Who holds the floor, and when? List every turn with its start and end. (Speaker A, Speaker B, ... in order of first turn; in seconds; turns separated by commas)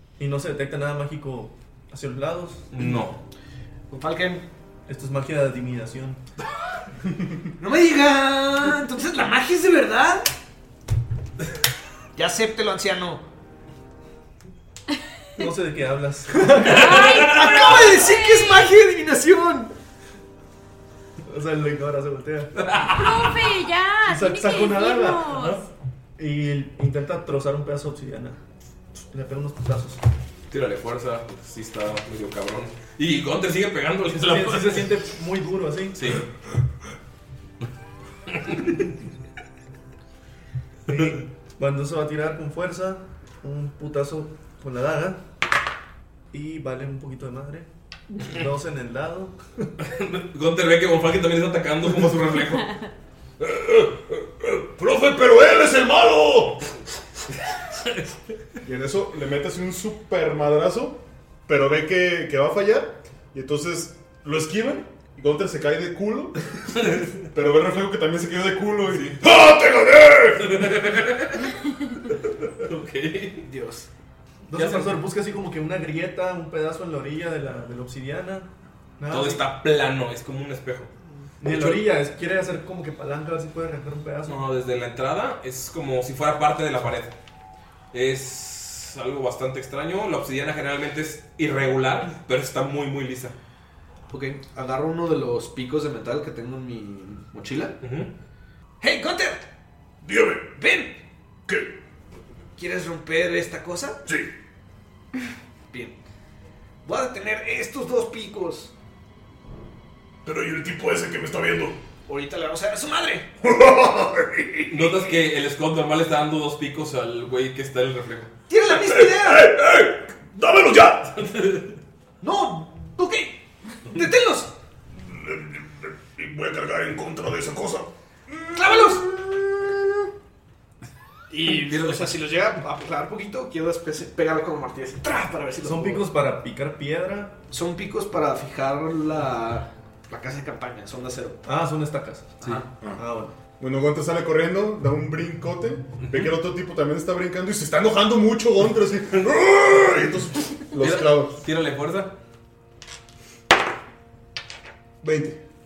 Speaker A: 0.2-2.7, Speaker B: 2.7-3.2, Speaker C: 3.9-4.4, Speaker A: 4.9-6.2, Speaker C: 7.6-10.3, Speaker C: 12.2-13.2, Speaker A: 15.4-17.1, Speaker B: 16.6-17.6, Speaker D: 16.7-18.8, Speaker C: 17.1-19.7, Speaker A: 21.2-22.9, Speaker B: 22.6-23.3, Speaker D: 22.9-25.6, Speaker A: 24.0-25.6, Speaker A: 26.2-28.4, Speaker A: 29.1-30.0, Speaker B: 30.5-34.9, Speaker A: 34.2-36.0, Speaker B: 36.0-36.2, Speaker B: 38.3-38.7, Speaker A: 40.9-45.2, Speaker A: 46.3-47.7, Speaker A: 48.2-49.7, Speaker B: 49.8-52.7, Speaker E: 53.4-56.6, Speaker F: 58.6-66.3, Speaker F: 67.3-69.2, Speaker B: 68.9-69.2, Speaker E: 69.2-70.6, Speaker B: 70.4-71.5, Speaker B: 72.6-73.5, Speaker C: 73.4-73.9, Speaker A: 74.5-79.4, Speaker B: 74.5-75.0, Speaker B: 79.1-80.9, Speaker A: 81.4-84.4, Speaker B: 81.4-81.9, Speaker B: 84.3-87.1, Speaker B: 87.9-93.3, Speaker C: 94.1-97.8, Speaker B: 97.8-98.1, Speaker C: 98.8-99.5, Speaker E: 100.0-100.6, Speaker C: 100.5-101.0, Speaker E: 101.5-101.7, Speaker C: 102.5-104.0, Speaker C: 105.7-106.0, Speaker C: 106.8-108.7, Speaker E: 110.2-111.8, Speaker C: 112.1-113.3, Speaker E: 113.4-114.6, Speaker B: 114.7-118.3, Speaker C: 118.5-119.5, Speaker E: 118.6-121.1, Speaker B: 121.2-121.8, Speaker C: 122.2-124.5, Speaker E: 125.0-127.9, Speaker C: 128.3-129.5, Speaker C: 131.3-136.0, Speaker B: 131.4-132.1, Speaker A: 135.6-137.3, Speaker C: 137.5-141.4, Speaker A: 141.4-143.3, Speaker F: 143.6-151.3, Speaker B: 150.8-152.1, Speaker F: 155.0-155.4